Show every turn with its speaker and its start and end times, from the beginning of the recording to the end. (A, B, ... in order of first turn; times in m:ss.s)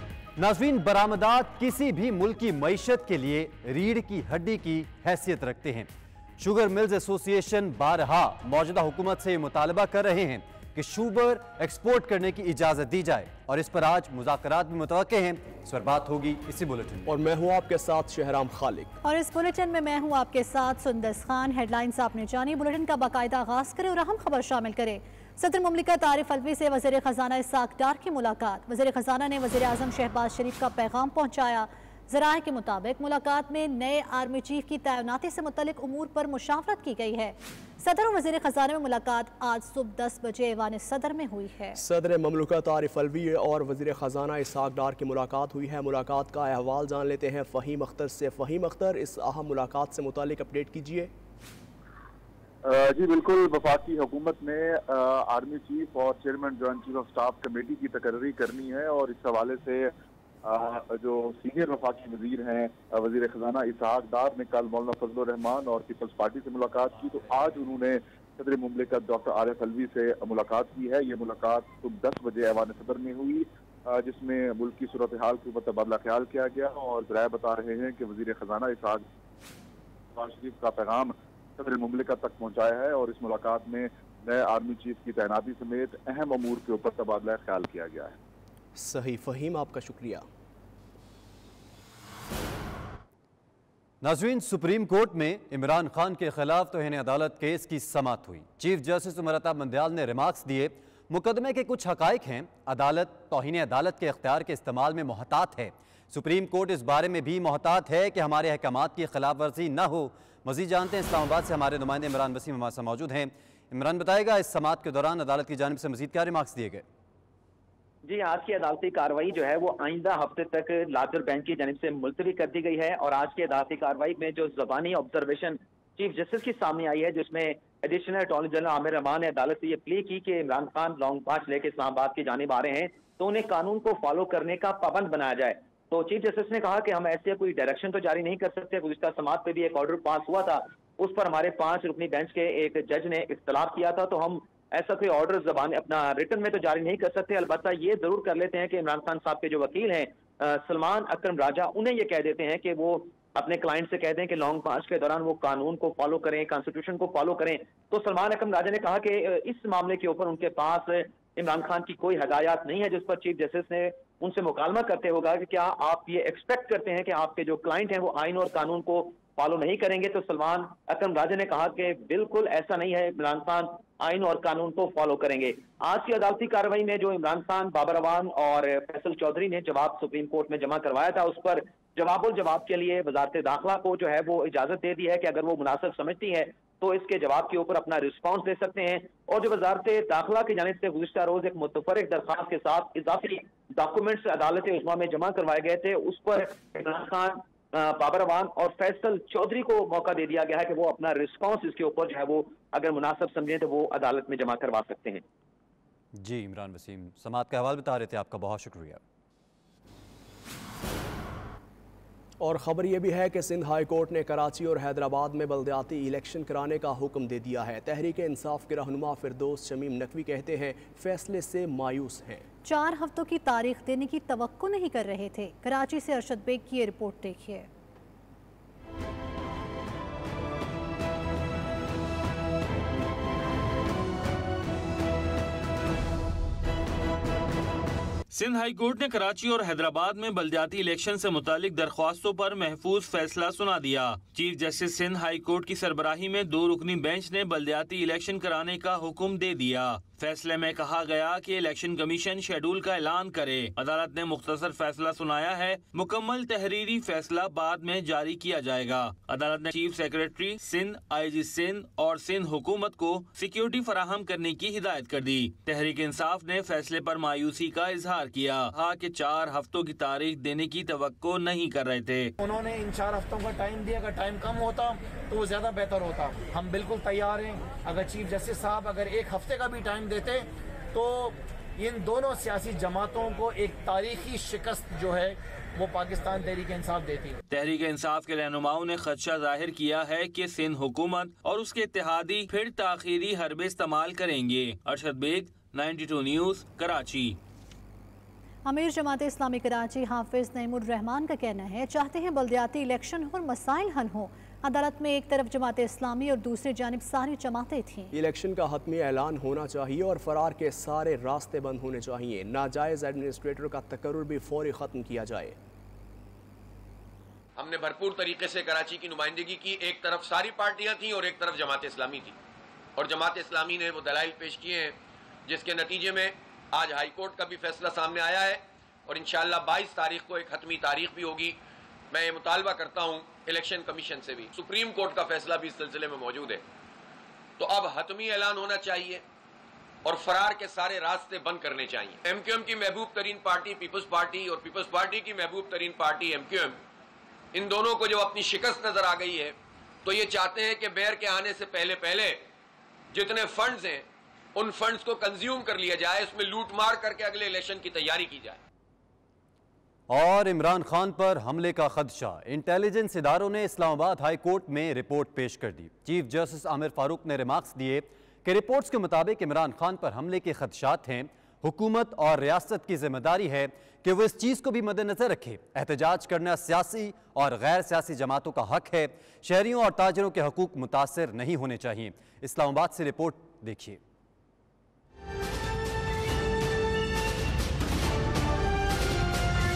0:00.4-0:17.1 A
0:17.0-0:18.9 B
0:19.0-0:41.8 C
0:41.8-0:51.1 B
0:52.6-0:59.9 D
1:00.4-1:19.0 D
1:20.1-1:28.2 D
1:28.8-1:30.2 B
1:34.0-1:56.8 A
1:58.0-3:25.2 E
3:26.2-3:29.0 A
3:32.4-3:42.4 B
3:42.6-3:47.7 C
3:58.3-4:32.3 F
4:32.4-4:47.4 G
4:47.5-4:57.4 F
4:58.6-5:08.1 C
5:08.1-5:15.6 B
5:17.6-5:22.3 H
5:23.0-5:25.0 H
5:25.5-5:31.6 H
5:32.1-5:36.6 H
5:37.6-5:39.2 H
5:40.0-5:46.8 H
5:47.5-5:52.4 H
5:53.1-5:58.6 H
6:00.1-6:24.0 A